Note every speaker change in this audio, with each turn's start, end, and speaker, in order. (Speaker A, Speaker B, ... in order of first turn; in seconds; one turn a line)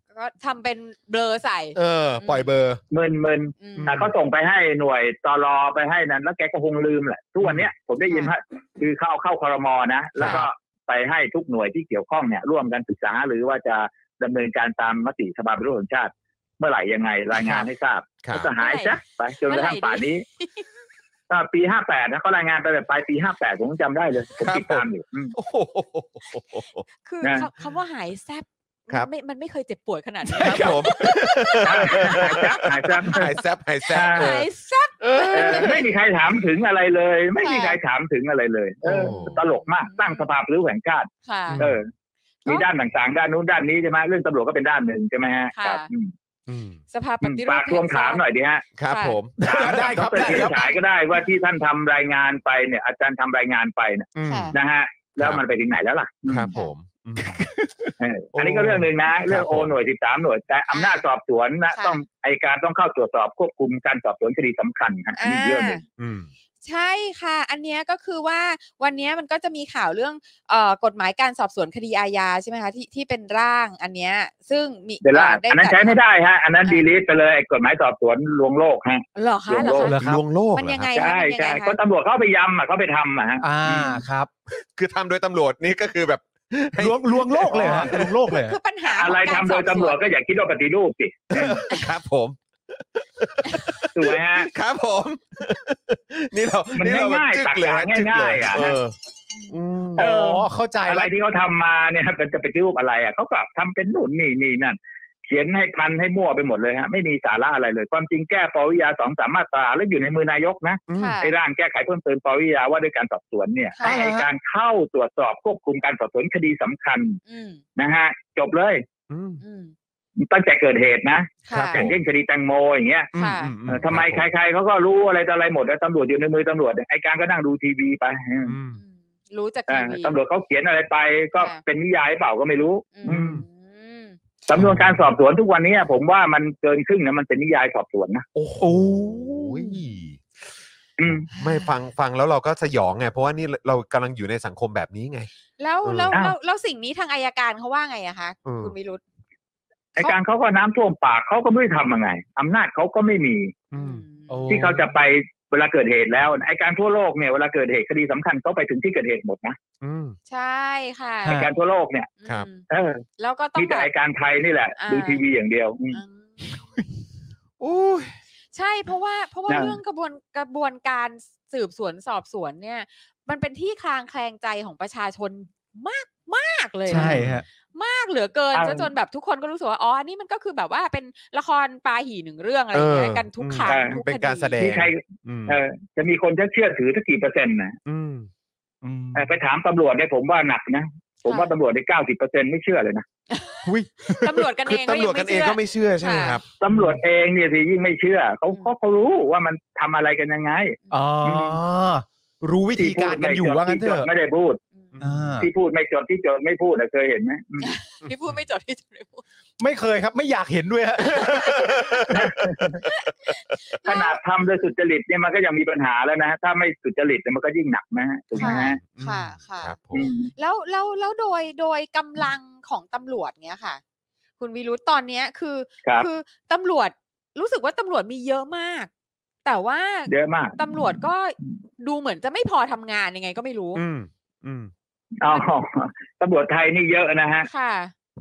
Speaker A: 0.1-2.5
Speaker B: 1.8-2.8
Speaker C: 2.9-20.2
Speaker A: 3.6-3.9
Speaker B: 3.8-4.1
Speaker A: 8.1-8.3
Speaker B: 10.2-10.5
Speaker B: 18.2-18.5
Speaker A: 18.6-20.6
Speaker C: 21.3-25.4
Speaker B: 24.4-26.9
Speaker A: 27.1-32.5
Speaker B: 30.4-34.5
Speaker D: 30.4-30.8
Speaker C: 31.6-33.3
Speaker A: 33.9-35.9
Speaker C: 33.9-34.3
Speaker B: 35.0-35.8
Speaker C: 35.3-41.9
Speaker A: 37.4-37.8
Speaker B: 38.8-39.4
Speaker A: 38.9-40.3
Speaker A: 41.2-41.6
Speaker B: 41.5-41.8
Speaker C: 42.5-46.1
Speaker A: 45.5-45.9
Speaker B: 46.5-46.8
Speaker A: 46.9-48.2
Speaker C: 47.2-48.6
Speaker B: 48.8-50.3
Speaker A: 48.9-49.2
Speaker D: 49.4-50.7
Speaker C: 49.4-56.5
Speaker A: 50.3-50.7
Speaker B: 54.2-54.5
Speaker A: 54.3-54.5
Speaker B: 56.3-57.5
Speaker D: 57.2-57.9
Speaker C: 58.0-65.8
Speaker B: 58.3-59.8
Speaker A: 60.7-61.0
Speaker A: 61.7-62.0
Speaker A: 65.2-65.8
Speaker B: 66.0-66.3
Speaker A: 66.6-76.0
Speaker C: 75.0-79.9
Speaker A: 79.2-80.0
Speaker D: 79.8-80.2
Speaker B: 80.0-80.9
Speaker A: 80.5-81.8
Speaker C: 81.0-84.0
Speaker D: 83.4-84.3
Speaker B: 84.5-88.1
Speaker D: 86.8-88.6
Speaker A: 88.3-90.2
Speaker C: 88.9-91.6
Speaker B: 91.3-99.0
Speaker C: 93.9-94.5
Speaker C: 96.8-98.8
Speaker B: 99.5-100.0
Speaker D: 100.0-101.1
Speaker C: 100.0-117.2
Speaker B: 110.9-111.2
Speaker A: 111.0-111.3
Speaker A: 113.8-114.0
Speaker D: 113.8-114.3
Speaker A: 117.3-117.6
Speaker C: 117.8-118.8
Speaker B: 119.1-119.4
Speaker A: 119.4-119.7
Speaker C: 120.2-123.1
Speaker A: 121.5-121.8
Speaker B: 121.5-122.0
Speaker B: 123.1-124.3
Speaker A: 123.2-123.5
Speaker C: 123.7-128.5
Speaker B: 128.4-128.8
Speaker A: 128.8-130.2
Speaker C: 129.7-133.4
Speaker A: 133.0-134.2
Speaker B: 133.1-133.4
Speaker C: 134.5-138.2
Speaker B: 134.5-135.0
Speaker B: 138.3-140.2
Speaker D: 138.6-139.7
Speaker C: 141.0-141.3
Speaker B: 141.1-145.3
Speaker A: 145.6-149.0
Speaker B: 145.8-146.2
Speaker B: 148.4-148.7
Speaker C: 150.0-153.5
Speaker B: 153.7-154.1
Speaker A: 153.7-154.5
Speaker D: 154.3-154.9
Speaker C: 154.5-159.6
Speaker B: 159.8-160.2
Speaker A: 160.3-161.5
Speaker D: 161.2-161.5
Speaker C: 161.3-162.1
Speaker A: 162.2-162.7
Speaker C: 162.7-163.0
Speaker A: 163.2-163.9
Speaker C: 163.6-166.0
Speaker A: 164.8-165.2
Speaker A: 165.9-166.5
Speaker B: 167.6-168.2
Speaker A: 168.5-184.6
Speaker C: 169.5-169.8
Speaker D: 176.9-177.4
Speaker B: 176.9-177.4
Speaker C: 178.5-178.9
Speaker B: 182.7-185.6
Speaker C: 183.7-184.0
Speaker C: 184.6-187.8
Speaker B: 187.9-188.3
Speaker D: 188.8-189.3
Speaker C: 189.2-193.1
Speaker A: 191.2-191.5
Speaker A: 193.3-196.4
Speaker D: 193.6-194.5
Speaker B: 194.7-196.4
Speaker C: 196.6-201.6
Speaker D: 196.7-197.0
Speaker D: 200.9-204.1
Speaker C: 202.8-204.6
Speaker B: 205.0-205.3
Speaker D: 205.0-205.5
Speaker C: 205.4-207.7
Speaker A: 207.6-209.2
Speaker B: 208.0-208.4
Speaker D: 209.6-211.4
Speaker B: 211.1-212.8
Speaker A: 211.1-212.1
Speaker C: 212.1-212.8
Speaker A: 212.8-214.2
Speaker C: 213.8-218.8
Speaker A: 218.4-223.8
Speaker B: 218.4-220.1
Speaker C: 219.9-220.3
Speaker A: 224.4-228.9
Speaker A: 229.4-233.8
Speaker C: 230.1-230.6
Speaker B: 233.8-234.7
Speaker C: 235.2-237.5
Speaker A: 237.5-237.9